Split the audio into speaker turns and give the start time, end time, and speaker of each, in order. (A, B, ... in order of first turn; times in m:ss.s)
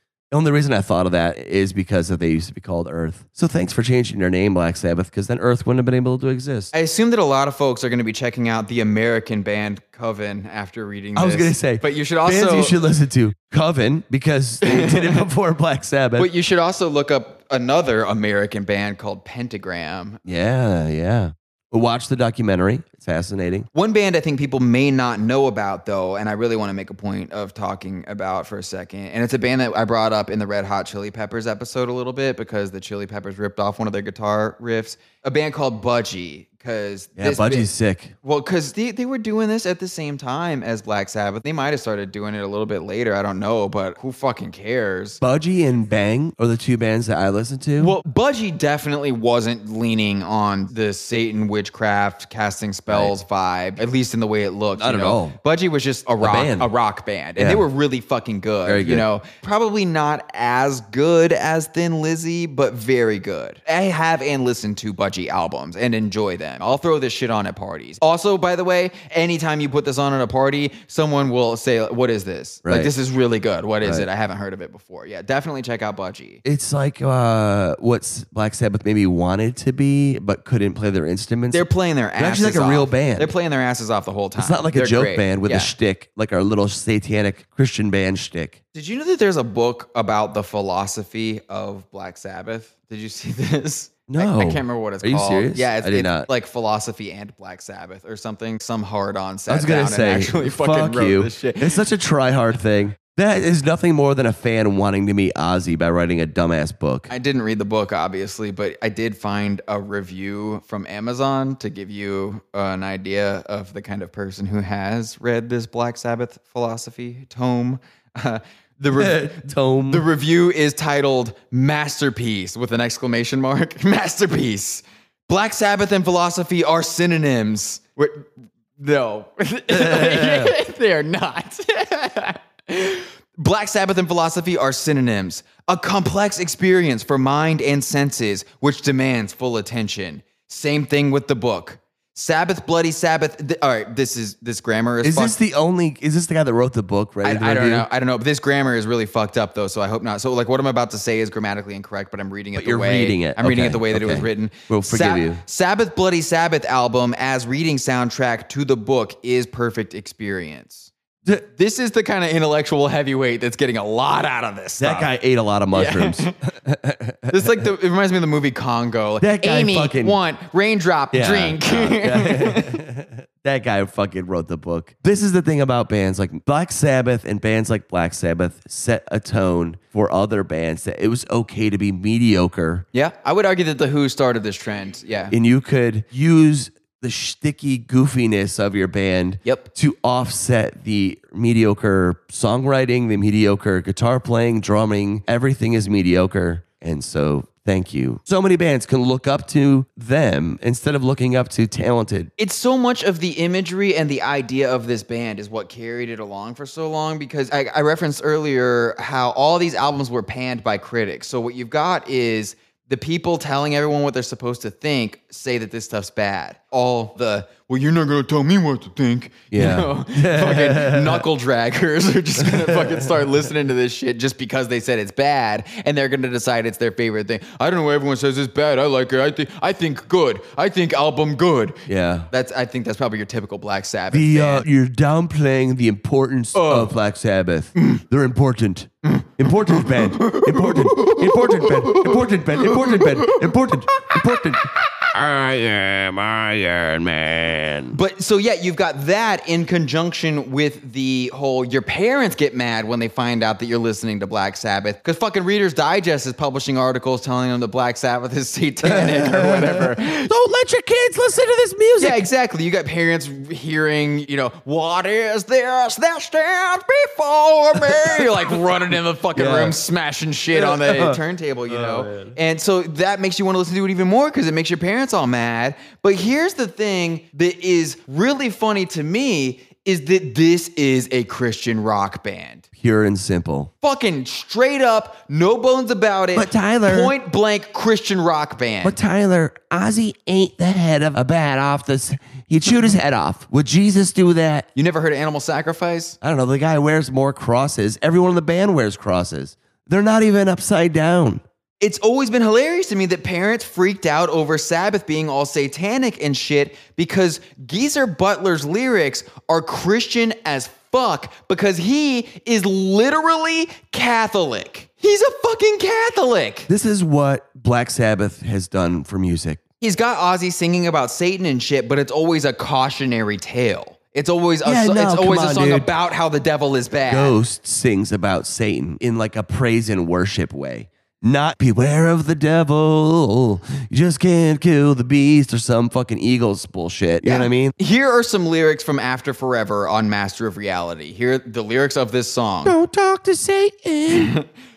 0:00.3-0:06.7 A
0:06.7-0:12.7 B
0:11.1-0:16.3 A
0:14.6-0:15.2 B
0:16.2-0:20.2 B
0:20.2-0:23.7 A
0:23.7-0:37.7 B
0:37.2-0:38.1 A
0:38.2-0:45.2 B
0:45.2-0:48.0 A
0:47.8-1:16.4 B
0:54.8-0:55.4 A
0:56.2-0:56.7 A
0:57.4-0:57.6 A
0:58.6-0:59.0 A
1:12.6-1:12.9 A
1:16.4-1:21.6 A
1:21.5-1:25.7 B
1:22.2-1:23.3 A
1:24.4-1:28.6 A
1:28.7-1:41.8 B
1:34.1-1:36.3 A
1:39.5-1:47.1 A
1:47.1-2:25.3 B
1:59.0-2:00.0 A
2:09.7-2:10.5 A
2:25.0-2:27.8 A
2:27.2-2:45.1 B
2:32.5-2:35.4 A
2:44.8-2:47.6 A
2:45.7-2:46.4 B
2:47.3-2:52.8 B
2:49.2-2:50.2 A
2:51.1-3:02.8 A
3:02.9-3:05.3 B
3:05.3-3:22.3 A
3:22.4-3:54.6 B
3:39.5-3:41.2 A
3:42.4-3:43.2 A
3:51.9-3:52.3 A
3:54.1-4:08.0 A
3:56.5-3:56.9 B
3:59.0-4:02.1 B
4:02.9-4:03.3 B
4:07.9-4:20.3 B
4:18.8-4:22.2 A
4:22.0-4:42.6 B
4:27.8-4:28.4 A
4:29.3-4:29.8 A
4:30.5-4:32.4 A
4:42.8-4:43.7 A
4:43.8-4:49.0 B
4:46.3-4:47.1 A
4:48.8-4:54.6 A
4:54.7-4:56.2 B
4:56.2-5:01.4 A
5:01.8-5:16.7 B
5:16.7-5:19.6 A
5:19.8-5:27.4 B
5:24.6-5:25.9 A
5:27.1-5:37.7 A
5:37.2-5:42.7 B
5:42.6-5:44.3 A
5:44.1-5:44.4 B